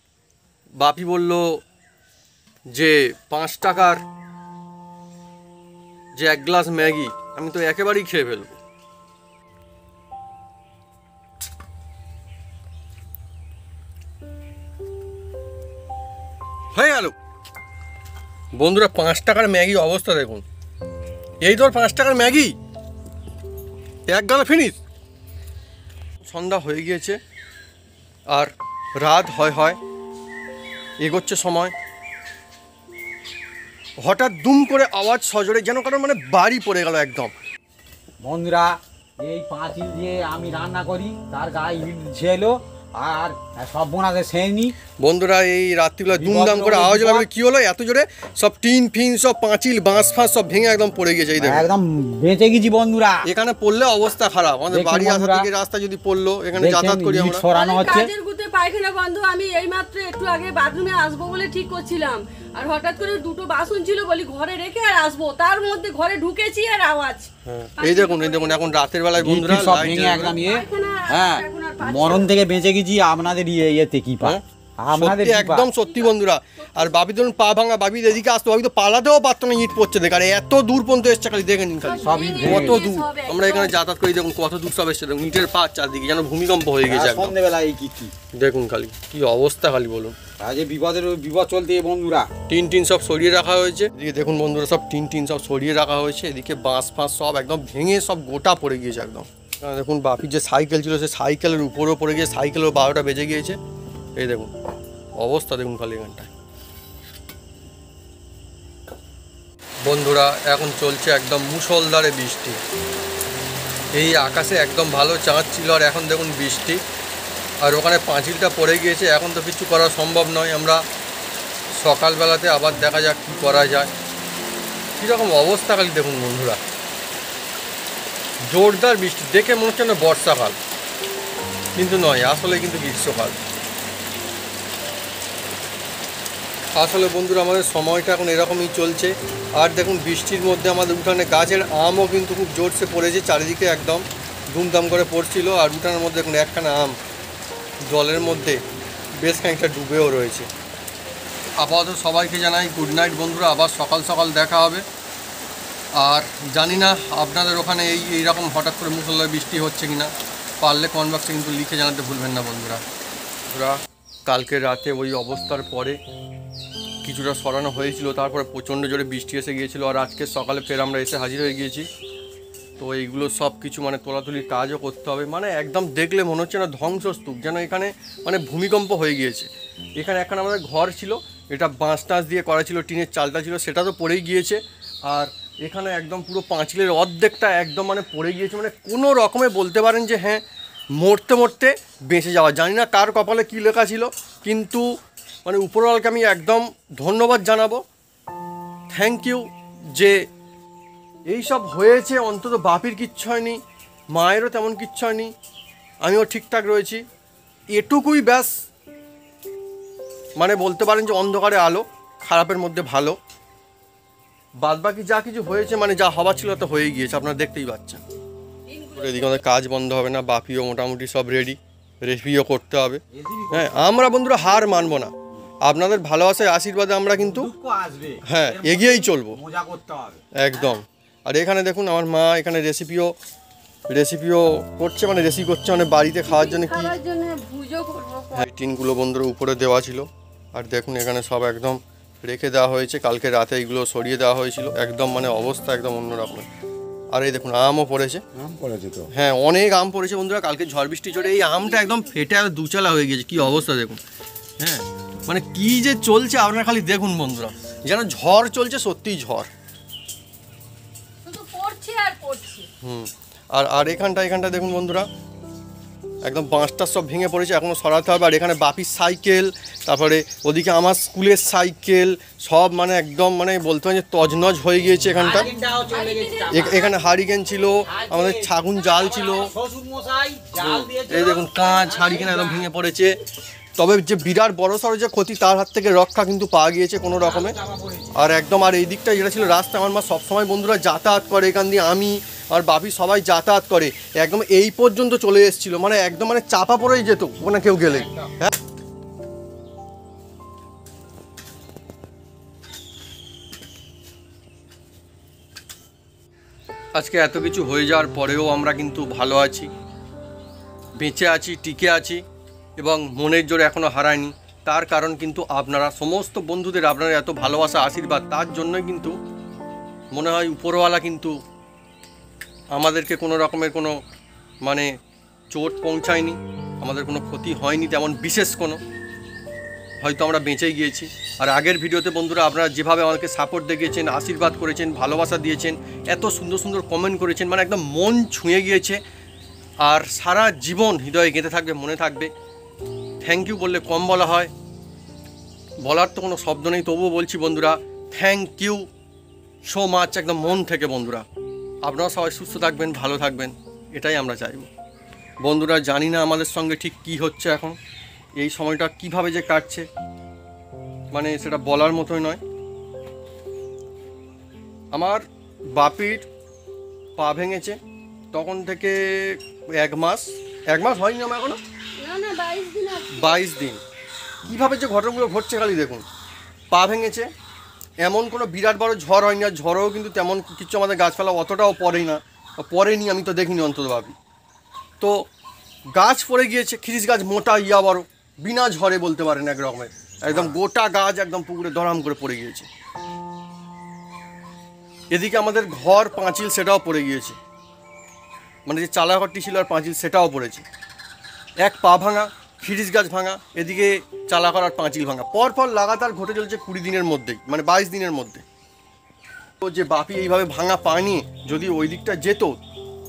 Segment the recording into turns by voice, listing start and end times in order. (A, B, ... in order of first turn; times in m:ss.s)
0:00.8-0:01.4 A
0:02.8-0:04.0 A
0:06.2-0:08.6 A
0:16.7-0:17.1 A
0:18.6-0:20.4 A
0:21.4-0:22.6 A
0:24.1-0:24.8 A
0:26.2-0:27.2 A
0:28.3-0:29.8 A
0:31.0-0:31.7 A
0:34.1-0:37.3 A
0:38.2-0:44.8 B
0:45.0-0:51.7 A
0:46.1-0:47.3 B
0:51.4-0:53.2 B
0:53.2-0:57.4 A
0:54.7-0:55.5 B
0:56.6-0:58.1 B
0:57.5-1:08.7 C
1:07.4-1:10.4 A
1:09.2-1:15.7 B
1:09.9-1:12.3 C
1:14.2-1:27.4 A
1:15.8-1:16.1 C
1:16.7-1:16.9 C
1:21.8-1:23.8 C
1:22.0-1:22.8 B
1:26.9-1:28.1 B
1:28.4-1:30.2 A
1:30.4-1:32.3 B
1:32.5-1:43.6 A
1:44.2-1:44.5 A
1:45.2-1:46.3 A
1:49.9-1:52.6 A
1:54.0-1:56.8 A
1:57.6-2:00.8 A
2:01.8-2:03.9 A
2:05.0-2:06.6 A
2:08.5-2:10.6 A
2:11.8-2:13.4 A
2:16.8-2:27.0 A
2:27.9-2:28.6 A
2:29.2-2:30.5 A
2:31.6-2:34.8 A
2:36.0-2:40.1 A
2:40.6-2:42.8 A
2:43.5-2:46.0 A
2:47.0-2:51.9 A
2:52.8-3:10.4 A
3:11.0-3:14.9 A
3:15.4-3:17.8 A
3:18.9-3:19.4 A
3:21.3-3:23.6 A
3:24.1-3:25.3 A
3:26.0-3:27.0 A
3:27.7-3:28.5 A
3:30.4-3:33.2 A
3:34.6-3:38.0 A
3:38.7-3:39.4 C
3:39.0-3:43.0 A
3:43.1-3:43.8 B
3:43.5-3:45.1 A
3:45.6-3:47.5 A
3:47.2-3:50.2 B
3:48.2-3:49.4 A
3:50.4-3:53.1 A
3:53.9-3:57.0 A
3:56.2-3:58.5 C
3:58.3-4:06.5 A
4:07.1-4:08.2 A
4:08.3-4:09.1 B
4:09.1-4:14.0 A
4:11.1-4:12.2 C
4:14.6-4:19.5 A
4:21.2-4:22.7 C
4:22.8-4:25.1 A
4:26.2-4:35.5 A
4:35.2-4:36.8 B
4:35.9-4:36.9 C
4:36.5-4:39.5 A
4:37.9-4:42.7 B
4:40.6-4:43.1 A
4:43.8-4:47.5 A
4:47.2-4:48.3 B
4:48.1-4:58.5 A
4:57.8-4:58.3 B
5:07.0-5:09.7 A
5:11.0-5:12.2 A
5:12.8-5:19.1 A
5:20.1-5:21.3 A
5:22.8-5:23.9 A
5:25.5-5:28.8 A
5:30.0-5:39.0 A
5:39.8-5:42.3 A
5:43.2-5:44.5 A
5:45.8-5:48.8 A
5:49.6-5:51.2 A
5:51.8-5:54.7 A
5:55.4-5:57.8 A
5:58.4-5:59.8 A
6:01.1-6:02.4 A
6:04.9-6:05.2 A
6:05.8-6:06.3 A
6:07.2-6:07.8 A
6:08.3-6:11.6 A
6:12.0-6:13.5 C
6:13.1-6:13.8 A
6:14.4-6:16.0 A
6:16.7-6:17.3 A
6:18.0-6:24.1 A
6:26.0-6:32.7 A
6:30.2-6:30.6 B
6:35.1-6:37.4 A
6:38.7-6:40.6 A
6:41.6-6:48.4 A
6:49.6-6:52.5 A